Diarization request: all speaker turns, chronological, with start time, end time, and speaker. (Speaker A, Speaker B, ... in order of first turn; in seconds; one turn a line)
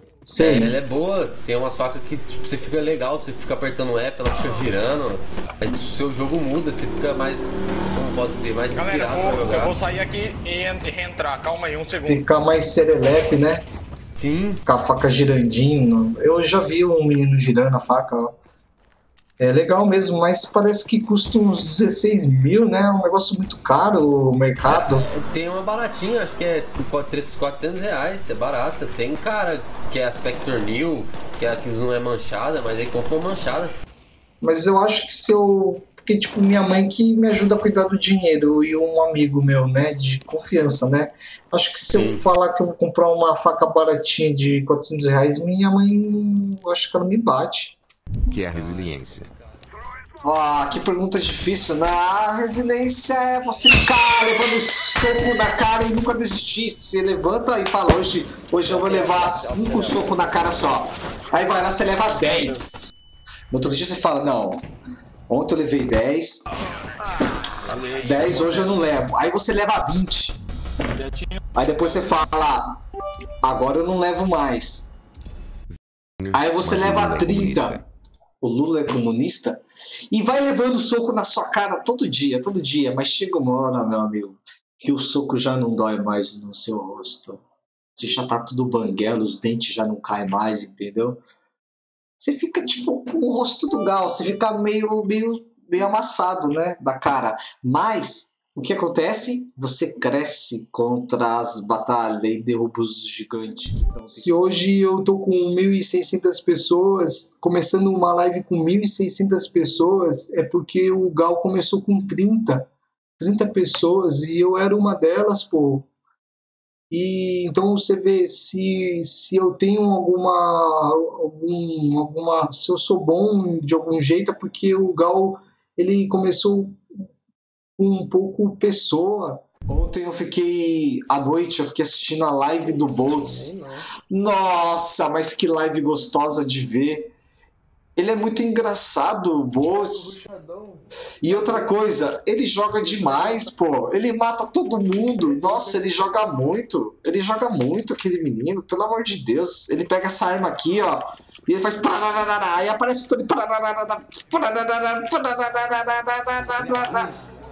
Speaker A: 0.3-0.8
Speaker B: 0.4-9.7
Speaker C: 8.7-12.2
Speaker A: 12.0-13.6
Speaker B: 14.2-14.6
Speaker A: 14.7-18.3
Speaker A: 19.4-25.1
Speaker B: 24.6-33.7
Speaker A: 34.4-47.8
Speaker B: 41.9-42.2
Speaker D: 48.3-49.3
Speaker B: 48.5-48.9
Speaker A: 50.2-62.9
Speaker A: 63.5-64.7
Speaker A: 65.3-66.5
Speaker C: 67.7-68.5
Speaker A: 68.0-70.4
Speaker A: 71.5-72.8
Speaker A: 73.4-74.9
Speaker D: 76.2-77.8
Speaker A: 76.3-77.8
Speaker A: 78.4-87.4
Speaker A: 88.0-91.2
Speaker A: 92.2-115.9
Speaker A: 116.9-126.8
Speaker A: 127.8-137.1
Speaker A: 138.0-140.3
Speaker A: 141.2-157.1